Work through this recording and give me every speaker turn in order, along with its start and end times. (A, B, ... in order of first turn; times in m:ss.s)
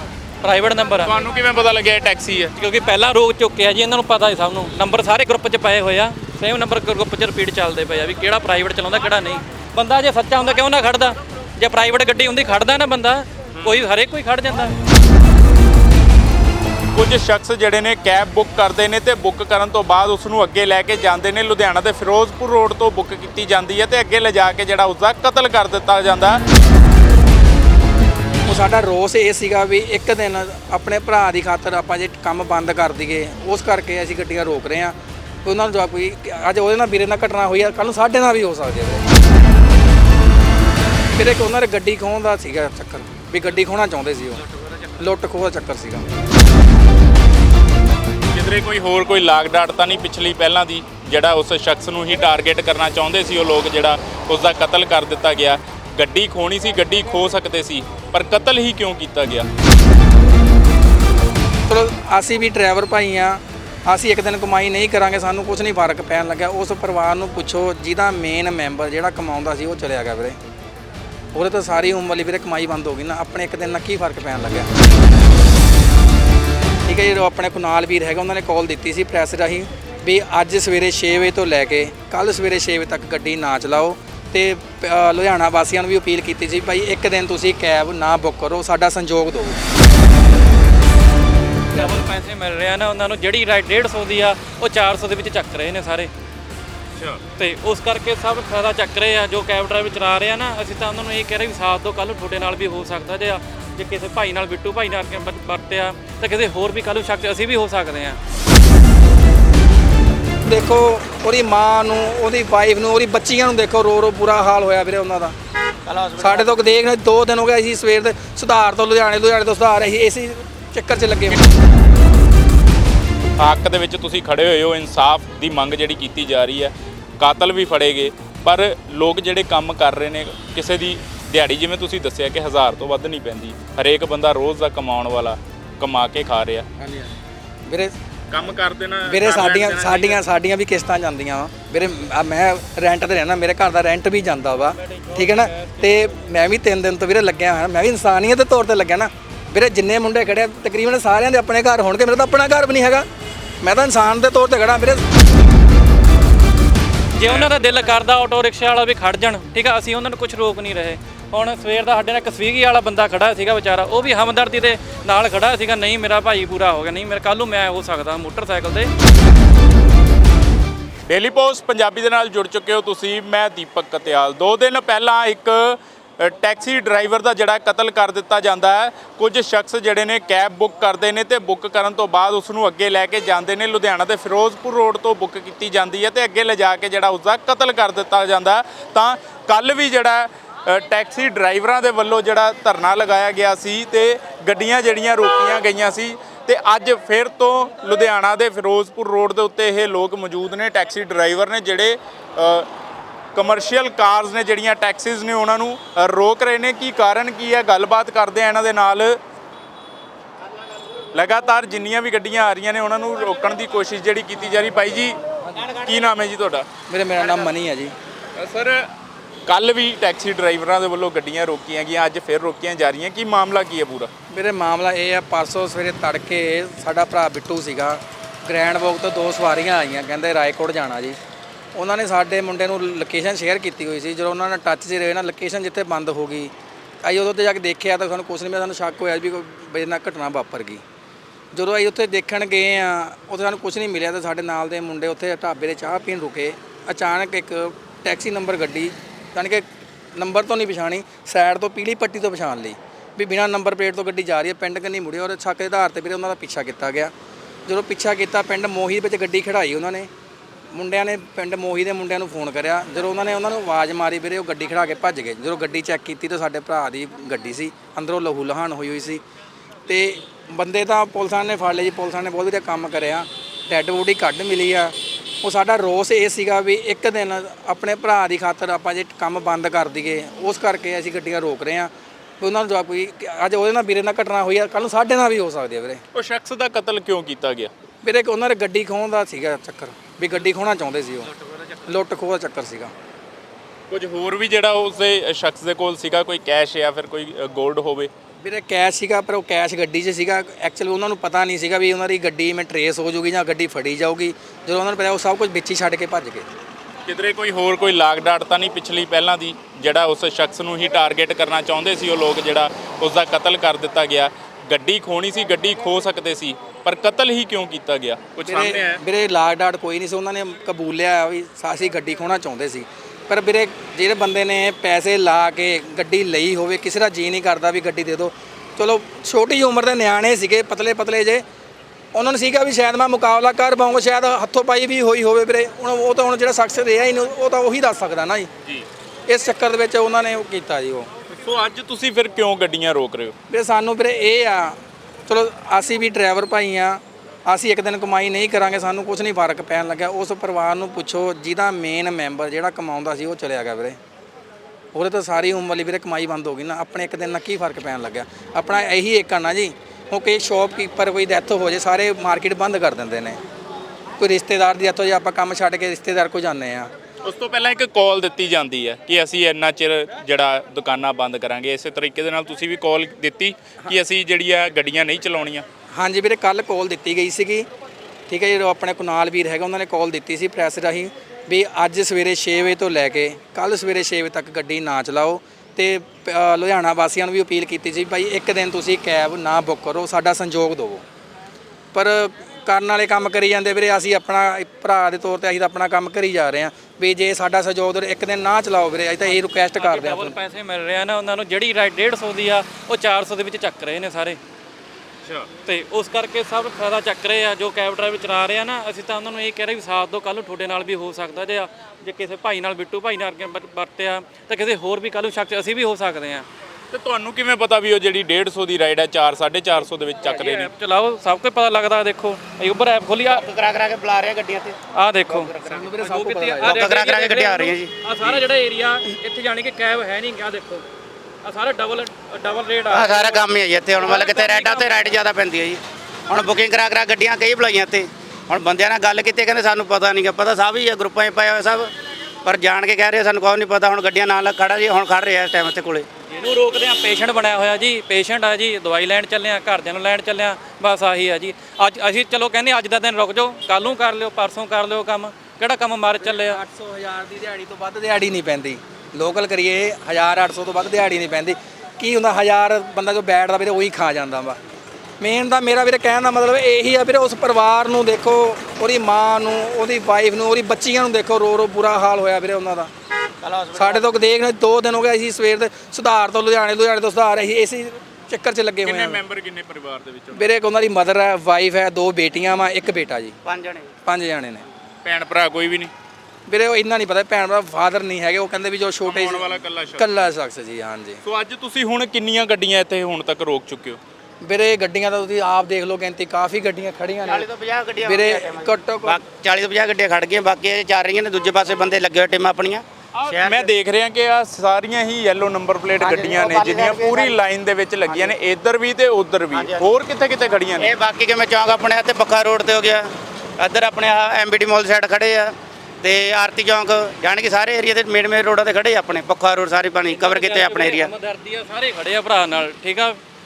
0:00.4-0:01.2 A
0:01.0-0:02.5 B
0:02.6-0:14.8 A
0:13.6-0:13.8 B
0:16.9-0:26.4 B
0:28.4-0:39.0 C
0:41.2-0:44.4 C
0:45.0-0:46.0 C
0:48.3-0:59.5 B
1:01.7-1:10.4 C
1:11.3-1:14.7 C
1:16.9-1:29.6 C
1:31.7-1:36.1 A
1:36.9-1:37.2 B
1:37.4-1:48.2 A
1:50.4-1:55.3 C
1:55.9-1:56.7 D
1:56.2-2:01.4 C
2:03.4-2:16.7 B
2:16.8-2:17.1 C
2:17.7-2:17.9 C
2:18.3-2:20.2 B
2:19.0-2:33.1 C
2:33.6-2:35.0 C
2:37.2-2:48.9 A
2:37.2-2:37.6 B
2:51.1-3:22.7 B
3:23.3-3:29.2 B
3:31.1-3:36.7 B
3:36.9-3:37.9 C
3:38.4-3:38.9 B
3:39.5-3:44.1 B
3:44.3-3:51.2 C
3:51.7-3:56.5 C
3:57.0-4:00.8 C
4:01.5-4:17.1 C
4:17.7-4:20.1 C
4:20.7-4:29.2 C
4:29.9-4:46.0 C
4:46.1-4:47.7 B
4:48.0-4:51.3 C
4:51.8-4:52.9 C
4:53.9-4:58.1 B
4:58.4-5:06.5 C
5:07.1-5:19.0 B
5:18.4-5:31.4 C
5:32.1-5:38.5 C
5:39.3-5:41.1 C
5:41.3-5:43.3 B
5:43.5-5:54.0 C
5:54.9-6:03.4 C
6:04.2-6:06.9 C
6:07.2-6:15.6 B
6:15.9-6:17.7 C
6:18.3-6:31.0 C
6:31.9-6:40.3 C
6:39.8-6:44.4 A
6:45.6-6:56.4 A
6:56.9-7:00.7 B
7:00.2-7:03.4 A
7:03.3-7:04.8 D
7:04.9-7:10.8 A
7:05.3-7:05.9 D
7:05.6-7:06.9 C
7:06.6-7:08.3 D
7:11.4-7:15.0 A
7:12.9-7:21.9 D
7:22.4-7:26.1 D
7:26.3-7:36.6 A
7:36.2-7:44.6 C
7:45.2-7:52.9 C
7:53.4-7:54.1 D
7:53.8-7:59.2 C
7:58.8-8:00.5 B
8:00.3-8:03.4 C
8:03.4-8:03.9 D
8:04.0-8:04.6 C
8:05.0-8:05.9 B
8:06.5-8:11.2 C
8:09.0-8:10.1 B
8:11.2-8:14.0 B
8:14.4-8:17.5 C
8:17.2-8:23.7 D
8:18.0-8:19.2 C
8:23.2-8:30.9 B
8:26.0-8:27.4 D
8:28.0-8:28.3 D
8:29.5-8:29.8 D
8:30.8-8:41.1 D
8:40.1-8:43.2 A